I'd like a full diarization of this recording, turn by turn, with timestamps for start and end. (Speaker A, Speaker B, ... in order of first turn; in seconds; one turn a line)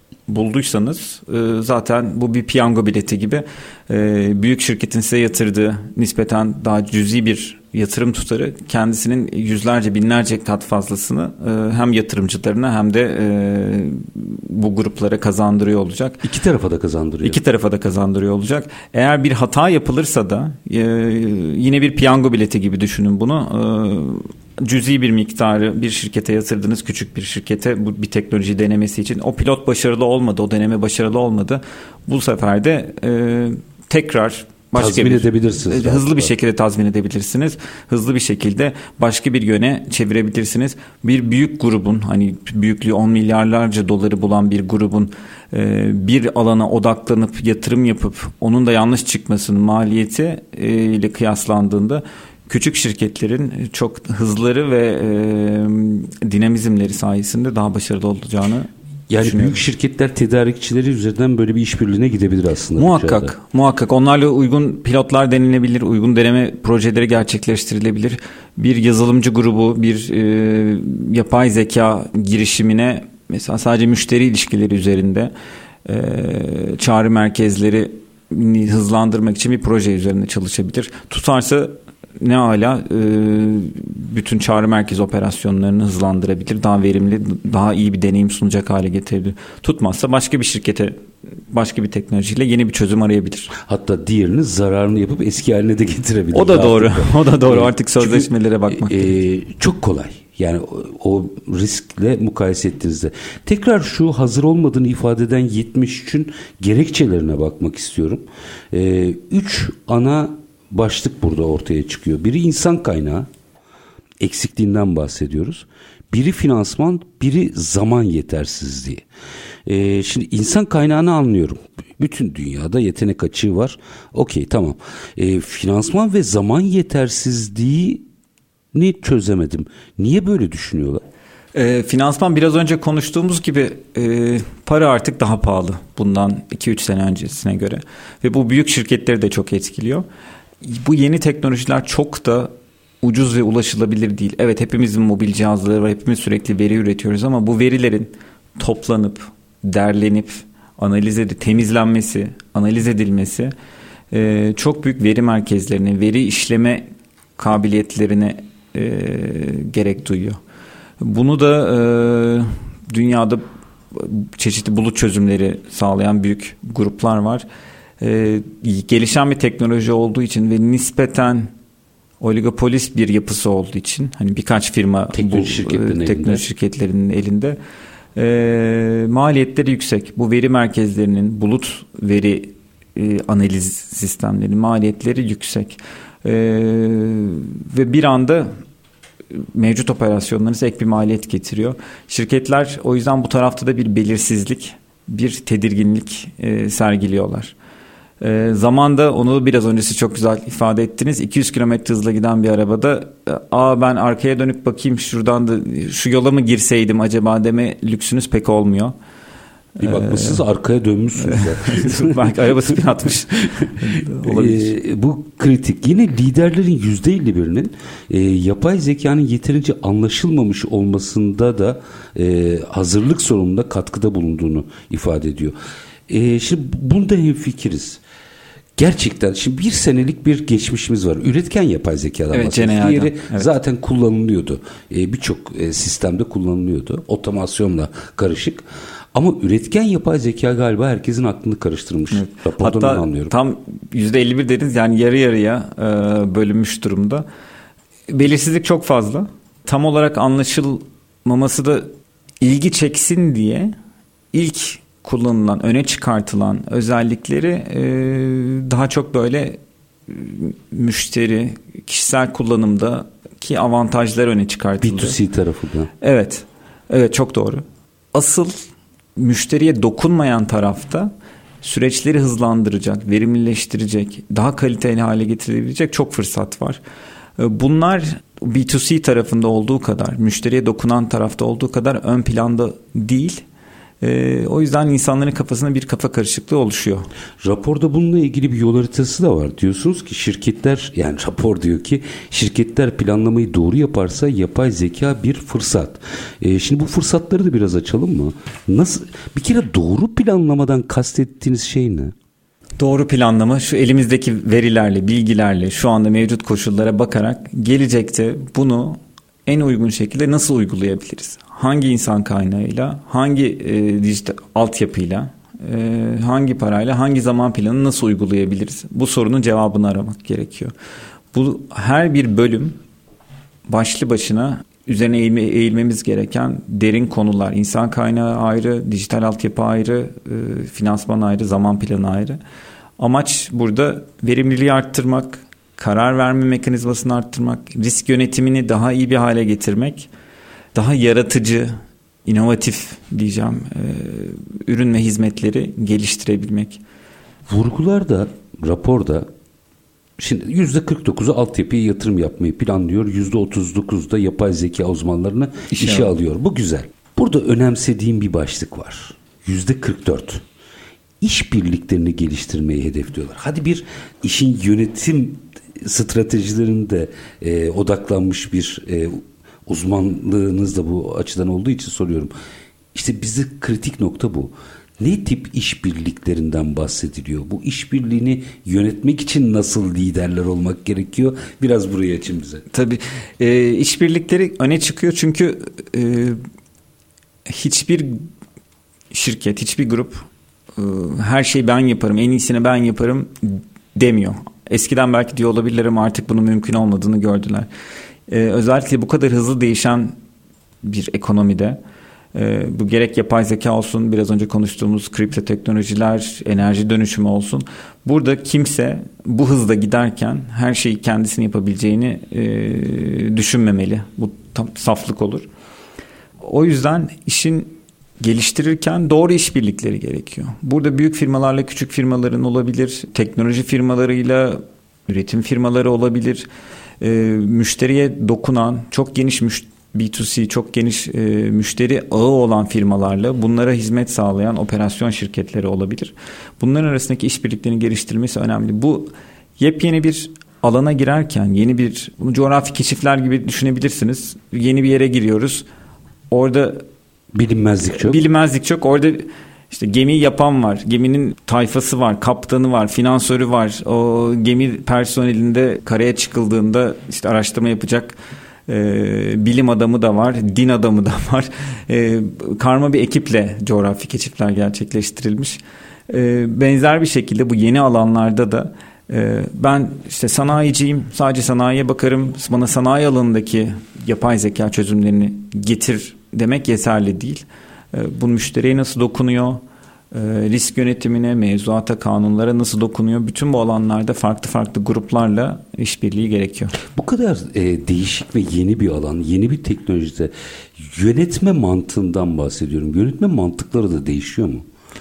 Speaker A: 0.3-16.2
Speaker B: 16.2-17.4
Speaker A: 17.2-59.6
Speaker B: 34.8-36.3
Speaker B: 59.1-63.3
Speaker A: 62.8-75.3
Speaker A: 75.9-91.0
Speaker A: 91.5-93.5
Speaker B: 93.6-113.3
Speaker A: 96.3-99.2
Speaker B: 114.2-119.0
Speaker B: 119.7-128.0
Speaker B: 128.7-131.0
Speaker A: 131.6-140.1
Speaker A: 140.6-153.5
Speaker A: 154.1-160.4
Speaker A: 161.0-167.5
Speaker A: 168.0-171.5
Speaker A: 172.2-177.6
Speaker B: 175.1-176.4
Speaker A: 178.2-188.5
Speaker A: 189.3-197.6
Speaker A: 198.2-208.9
Speaker A: 209.8-210.4
Speaker B: 209.8-212.3
Speaker A: 211.2-214.7
Speaker B: 214.1-225.6
Speaker B: 226.1-228.0
Speaker B: 228.8-243.3
Speaker A: 232.3-233.5
Speaker A: 242.1-247.3
Speaker A: 248.1-253.8
Speaker A: 254.3-265.2
Speaker B: 264.8-265.9
Speaker A: 266.0-267.6
Speaker A: 268.1-268.6
Speaker A: 269.2-276.8
Speaker A: 277.4-283.4
Speaker A: 284.0-287.1
Speaker B: 287.4-302.1
Speaker A: 302.8-320.7
Speaker A: 321.3-322.8
Speaker A: 323.7-332.4
Speaker A: 333.0-340.1
Speaker A: 340.7-346.8
Speaker B: 347.5-349.3
Speaker B: 350.2-360.4
Speaker A: 355.7-356.1
Speaker B: 361.2-372.3
Speaker B: 372.9-382.6
Speaker A: 382.7-386.4
Speaker A: 387.5-388.2
Speaker A: 389.1-397.7
Speaker A: 398.3-400.1
Speaker A: 400.8-401.8
Speaker A: 402.4-415.5
Speaker A: 416.4-426.5
Speaker A: 427.0-445.7
Speaker A: 446.3-446.9
Speaker B: 447.3-448.2
Speaker A: 447.9-479.6
Speaker A: 480.1-486.8
Speaker B: 486.9-494.6